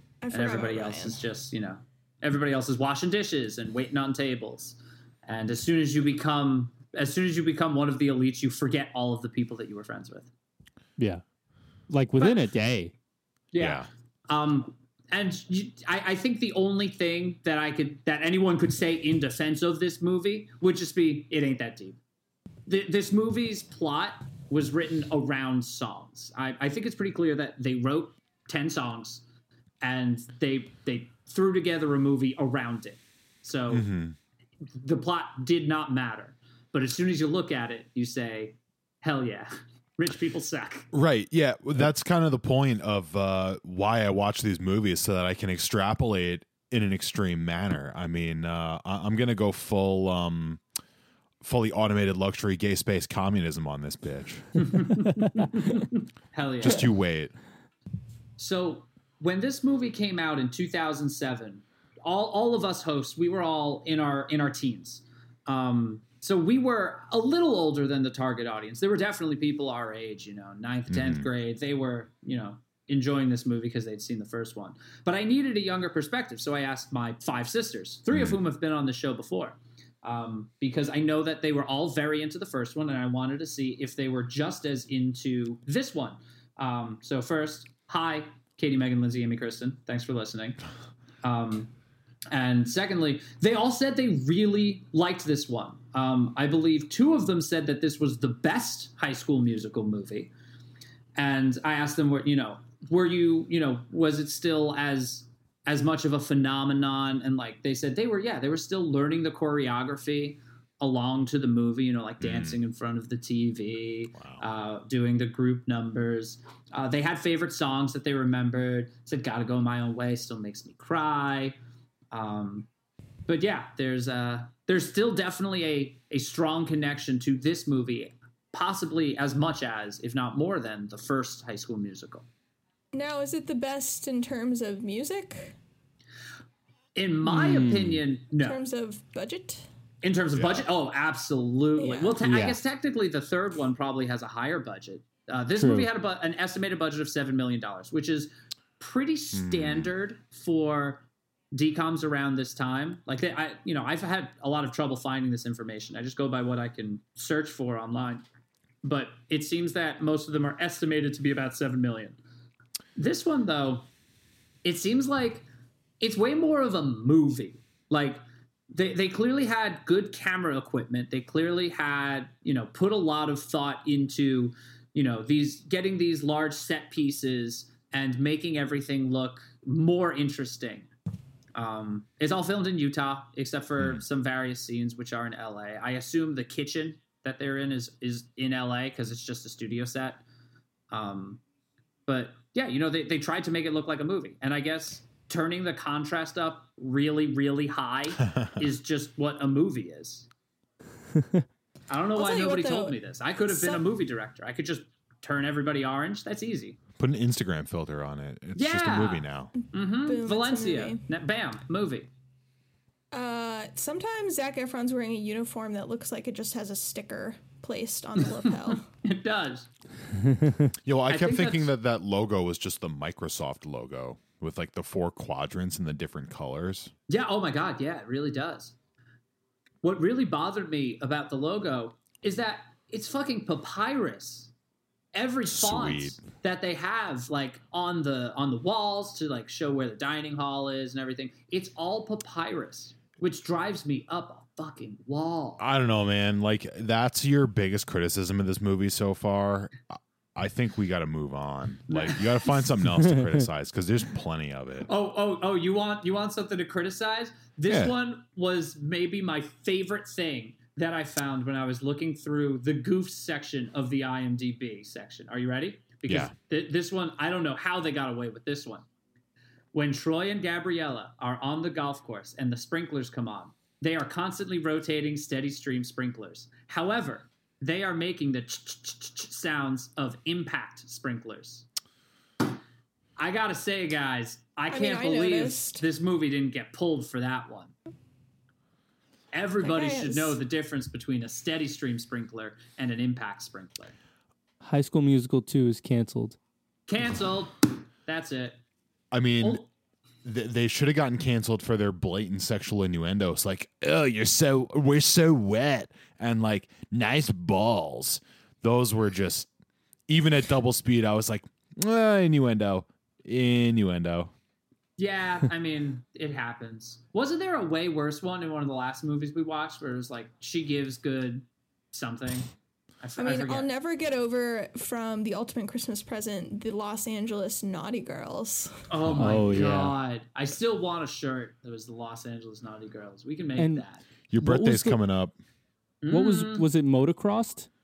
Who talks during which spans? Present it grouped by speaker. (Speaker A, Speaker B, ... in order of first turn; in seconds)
Speaker A: 0.2-1.2, 132.9-135.6, 138.4-139.7, 141.8-142.2, 202.1-203.8, 209.6-211.0, 213.1-218.8, 284.7-285.8, 289.6-290.4, 323.2-328.8
Speaker B: 0.3-10.3, 12.2-12.5, 13.5-22.0, 22.7-29.2, 29.8-33.9, 34.7-40.9, 54.6-56.9, 58.4-90.6, 91.2-91.7, 92.3-100.3, 101.2-121.5, 122.1-122.7, 123.3-132.2, 136.9-138.6, 140.0-158.2, 158.8-162.2, 163.0-163.9, 164.6-165.4, 166.0-168.2, 168.7-180.9, 181.5-190.2, 190.9-191.4, 192.1-200.3, 201.9-206.8, 208.5-212.1, 218.2-219.7, 221.1-221.7, 227.1-228.7, 229.8-234.5, 235.1-245.6, 251.9-252.8, 254.8-268.9, 269.7-281.6, 283.2-287.7, 289.3-293.9, 296.9-298.6, 299.4-299.6, 315.0-323.7, 328.9-334.0, 336.0-336.7
Speaker C: 11.0-11.2, 11.9-12.9, 137.2-138.0, 142.2-142.6, 145.6-145.9, 220.3-220.7, 294.6-296.4, 329.1-329.9, 333.6-333.8, 334.4-335.0, 336.1-337.7
Speaker D: 13.6-13.9, 33.7-34.1, 40.9-50.6, 51.4-54.6, 56.6-57.3, 70.9-71.2, 112.2-112.6, 114.2-114.4, 140.3-140.7, 149.3-149.9, 207.0-209.5, 220.8-226.9, 235.5-236.2, 245.6-254.9, 257.7-257.9, 266.1-266.3, 299.1-299.6, 300.2-309.5, 310.1-314.3, 329.0-329.4, 334.3-335.4